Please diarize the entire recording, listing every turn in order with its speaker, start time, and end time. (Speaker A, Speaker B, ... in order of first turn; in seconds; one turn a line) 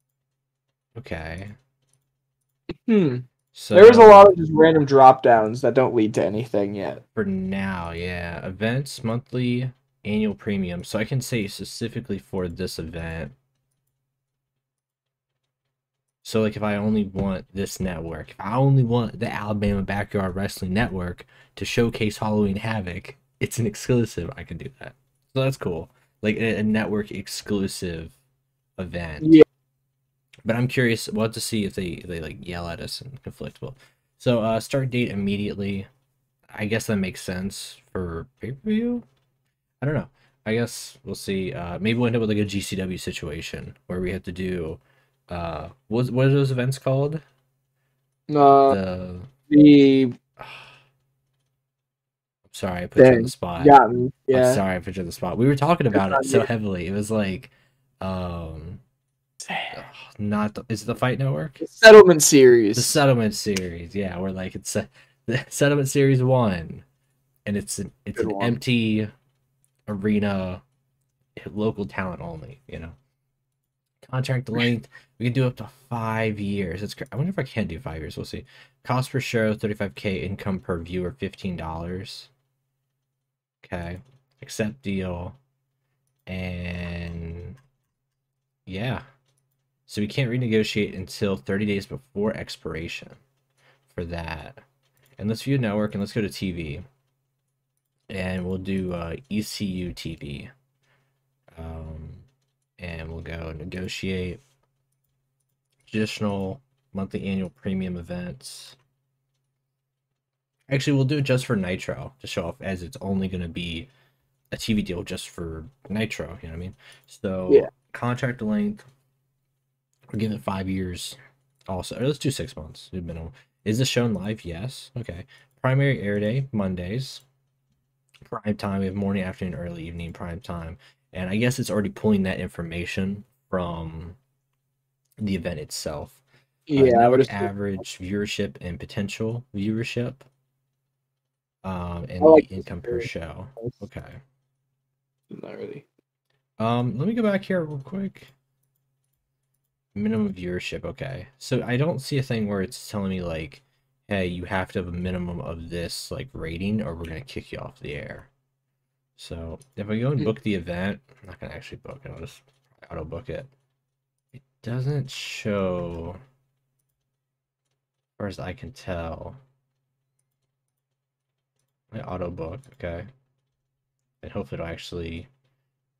Speaker A: 1.0-1.6
Speaker B: 2.9-7.0
Speaker A: 3.5-4.3
Speaker A: 7.2-13.3
Speaker A: 16.2-28.2
Speaker A: 28.8-29.4
Speaker A: 30.5-35.9
Speaker A: 36.5-39.0
Speaker A: 39.8-47.2
Speaker B: 48.3-48.8
Speaker A: 48.7-49.3
Speaker B: 49.5-50.2
Speaker A: 50.4-50.7
Speaker A: 52.5-53.8
Speaker B: 53.0-54.6
Speaker A: 54.3-58.8
Speaker B: 55.9-56.5
Speaker B: 59.5-59.8
Speaker A: 59.7-61.6
Speaker B: 61.6-63.0
Speaker A: 62.8-66.9
Speaker A: 67.5-69.1
Speaker B: 68.2-68.6
Speaker A: 69.9-70.6
Speaker A: 71.4-73.0
Speaker A: 74.0-82.3
Speaker A: 83.6-85.4
Speaker A: 86.3-87.6
Speaker A: 88.7-89.0
Speaker A: 89.9-93.2
Speaker A: 93.9-94.6
Speaker A: 95.2-96.9
Speaker A: 98.1-100.5
Speaker A: 101.5-102.3
Speaker A: 102.8-104.4
Speaker A: 105.9-108.8
Speaker A: 110.7-113.9
Speaker A: 114.5-118.8
Speaker A: 120.1-121.2
Speaker A: 121.7-127.2
Speaker A: 128.3-134.2
Speaker A: 135.2-136.2
Speaker B: 136.7-137.5
Speaker A: 136.8-140.3
Speaker A: 141.6-144.2
Speaker B: 142.2-143.1
Speaker B: 145.3-145.9
Speaker A: 146.6-148.3
Speaker A: 149.9-158.3
Speaker A: 159.2-163.5
Speaker A: 164.4-166.2
Speaker A: 168.2-169.4
Speaker A: 171.9-173.1
Speaker A: 174.2-175.3